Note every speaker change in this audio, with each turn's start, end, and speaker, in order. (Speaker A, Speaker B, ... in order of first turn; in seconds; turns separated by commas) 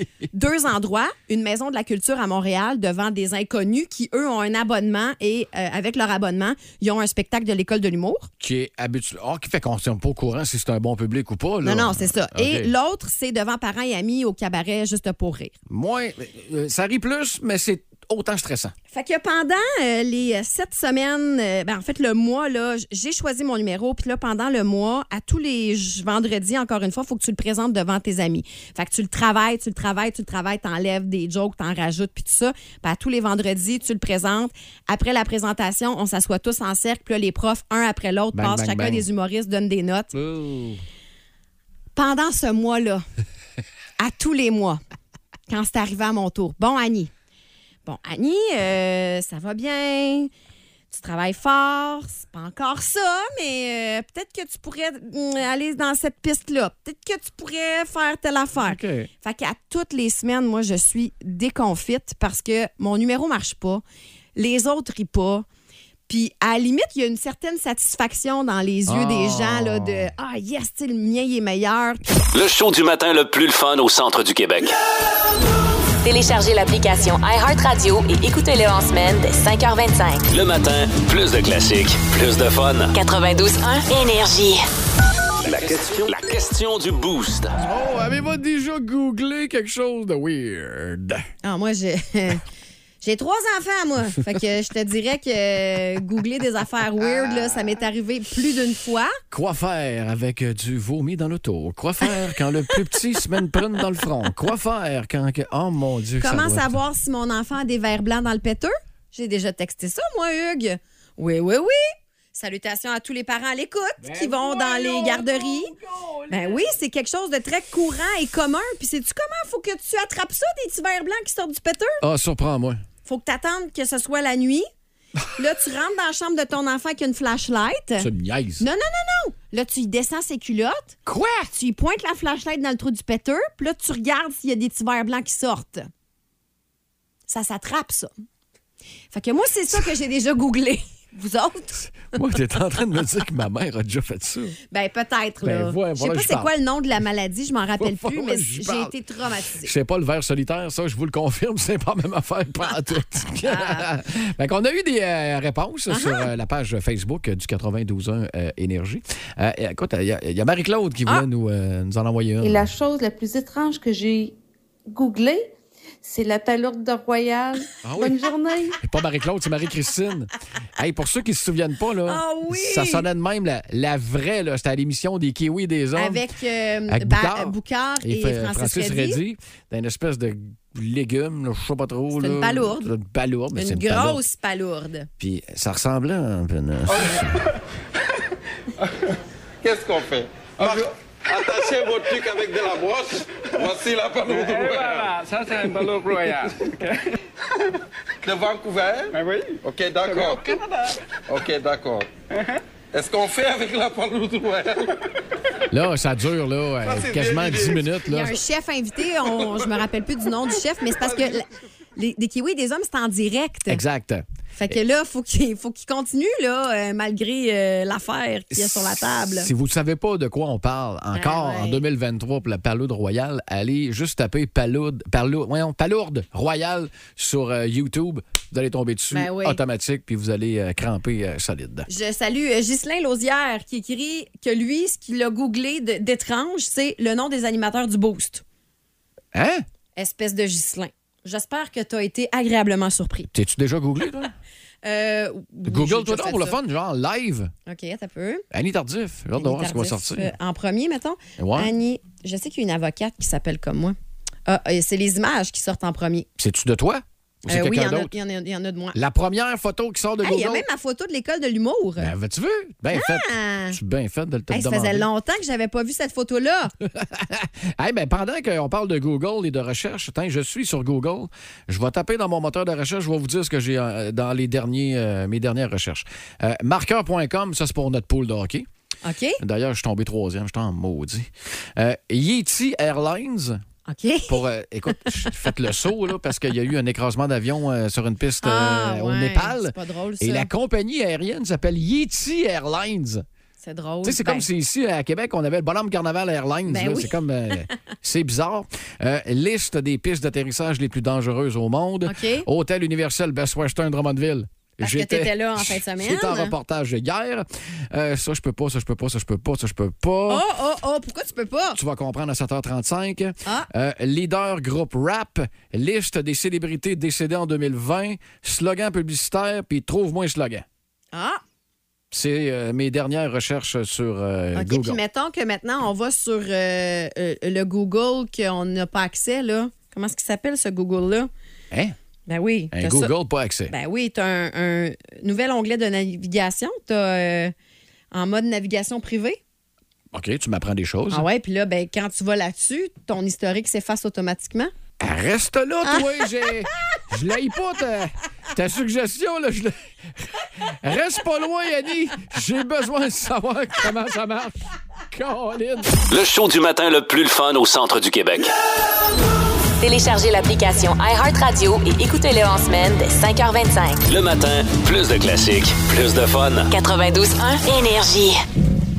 Speaker A: 0.3-8.3, Speaker B: 8.4-12.7, Speaker A: 11.6-15.5, Speaker B: 15.7-18.7, Speaker A: 18.9-40.1, Speaker B: 38.3-39.0, Speaker B: 40.1-40.8, Speaker A: 41.9-43.0, Speaker A: 44.0-44.8, Speaker A: 45.5-47.1, Speaker A: 47.9-50.3, Speaker A: 50.9-63.8, Speaker B: 58.6-59.1, Speaker A: 64.3-65.5, Speaker A: 66.1-72.0, Speaker B: 68.8-70.1, Speaker C: 72.3-74.8, Speaker D: 76.0-80.2, Speaker C: 80.3-82.9, Speaker D: 82.9-84.6, Speaker C: 85.4-87.6, Speaker B: 87.6-91.3, Speaker A: 91.4-92.4, Speaker A: 93.0-99.2, Speaker B: 97.0-97.5, Speaker B: 99.3-106.8, Speaker A: 106.2-115.7, Speaker B: 114.0-116.7, Speaker A: 116.3-122.0, Speaker B: 122.0-122.8, Speaker A: 123.0-124.7, Speaker A: 125.3-128.1, Speaker B: 128.0-128.6, Speaker A: 128.6-131.0, Speaker B: 131.1-131.5, Speaker A: 131.5-135.9, Speaker A: 137.3-138.1, Speaker A: 139.1-142.1, Speaker B: 142.1-144.6, Speaker A: 144.7-149.7, Speaker B: 145.4-146.5, Speaker B: 147.8-148.9, Speaker B: 149.6-162.7, Speaker A: 153.4-153.8, Speaker A: 155.9-156.3, Speaker E: 162.4-164.3, Speaker E: 164.9-165.5, Speaker E: 166.0-168.8, Speaker B: 167.8-168.2, Speaker B: 168.8-176.2, Speaker A: 172.1-173.1, Speaker A: 175.9-179.2, Speaker B: 176.9-184.2, Speaker A: 182.2-182.9, Speaker A: 183.5-185.1, Speaker B: 185.2-187.5, Speaker F: 189.6-195.0, Speaker G: 194.2-197.2, Speaker F: 198.2-200.4, Speaker G: 199.1-200.9, Speaker F: 201.3-202.1, Speaker G: 202.3-202.6, Speaker F: 202.9-204.9, Speaker B: 205.7-208.4, Speaker F: 206.9-207.8, Speaker A: 208.0-213.8, Speaker B: 213.7-214.8, Speaker A: 214.6-219.5, Speaker B: 218.5-231.9, Speaker A: 221.1-221.8, Speaker A: 229.1-229.6, Speaker A: 231.9-238.4, Speaker B: 239.3-239.6, Speaker A: 239.9-243.3, Speaker B: 243.3-244.3, Speaker A: 244.8-246.6, Speaker B: 245.7-247.5, Speaker A: 247.7-248.4, Speaker B: 248.5-250.3, Speaker A: 249.4-253.9, Speaker B: 251.4-251.7, Speaker A: 254.5-256.3, Speaker B: 256.4-258.1, Speaker A: 257.5-259.0, Speaker B: 258.9-260.6, Speaker A: 260.2-262.1, Speaker B: 262.0-265.1, Speaker A: 262.9-263.8, Speaker A: 264.5-266.7, Speaker B: 266.8-278.6, Speaker A: 279.0-279.4, Speaker B: 279.4-283.6, Speaker A: 283.9-285.4, Speaker B: 284.3-293.2, Speaker A: 288.4-290.5, Speaker A: 293.6-294.4, Speaker B: 294.0-310.4, Speaker A: 296.7-297.7, Speaker A: 302.0-302.5, Speaker A: 304.8-306.5, Speaker A: 310.3-311.8, Speaker B: 311.7-320.6, Speaker A: 321.1-321.4, Speaker B: 322.1-325.0, Speaker A: 324.5-331.3, Speaker A: 332.3-333.1, Speaker B: 332.7-333.7, Speaker A: 333.7-337.5, Speaker A: 338.1-339.4, Speaker B: 340.1-341.3, Speaker A: 341.1-344.7, Speaker B: 345.0-356.0, Speaker A: 345.9-346.2, Speaker C: 356.1-358.5, Speaker D: 359.8-364.0, Speaker C: 364.1-366.7, Speaker D: 366.7-368.4